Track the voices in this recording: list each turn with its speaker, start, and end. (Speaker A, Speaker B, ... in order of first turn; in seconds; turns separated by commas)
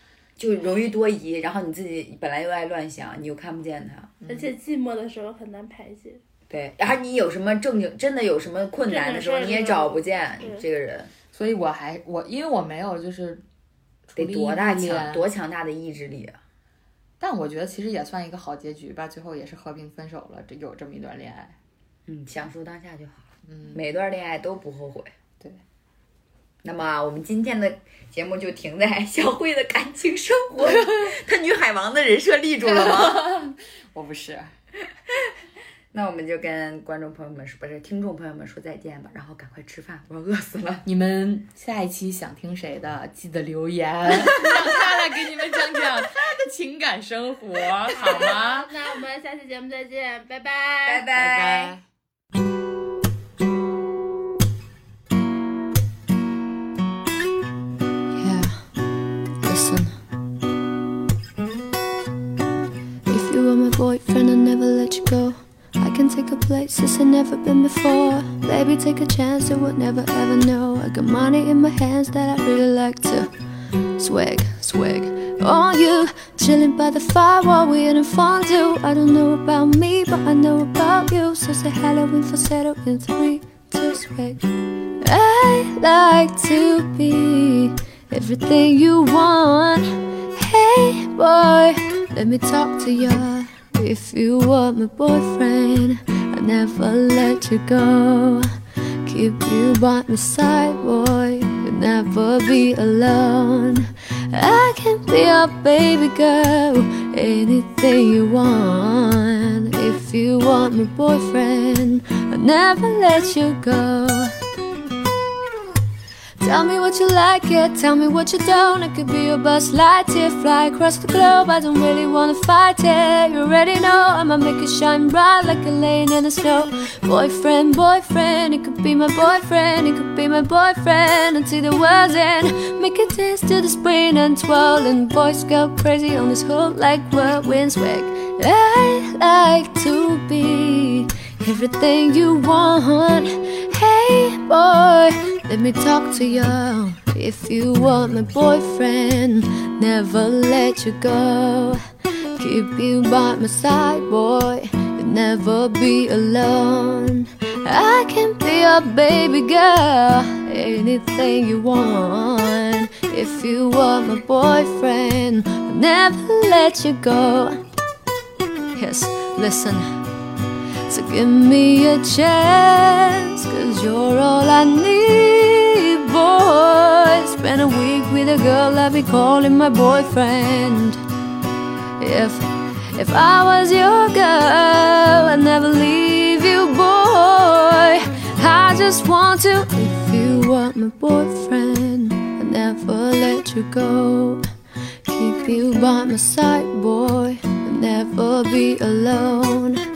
Speaker A: 0.4-4.1, Speaker B: 4.2-4.5, Speaker C: 4.3-6.2, Speaker A: 6.5-11.1, Speaker C: 8.9-10.7, Speaker B: 11.3-13.4, Speaker B: 14.1-15.2, Speaker A: 14.2-16.4, Speaker B: 17.2-21.6, Speaker A: 22.1-25.1, Speaker B: 23.5-23.8, Speaker A: 26.6-33.3, Speaker B: 32.6-34.5, Speaker A: 35.9-40.9, Speaker B: 40.9-48.7, Speaker C: 48.0-51.0, Speaker A: 50.9-51.8, Speaker B: 51.1-51.8, Speaker D: 58.2-58.6, Speaker D: 59.4-60.0, Speaker D: 63.1-73.3, Speaker D: 74.0-84.4, Speaker D: 85.0-98.4, Speaker D: 99.1-114.3, Speaker D: 116.4-151.8, Speaker D: 152.4-167.6, Speaker D: 168.8-169.9, Speaker D: 170.9-181.0, Speaker D: 182.0-194.4, Speaker D: 195.1-199.8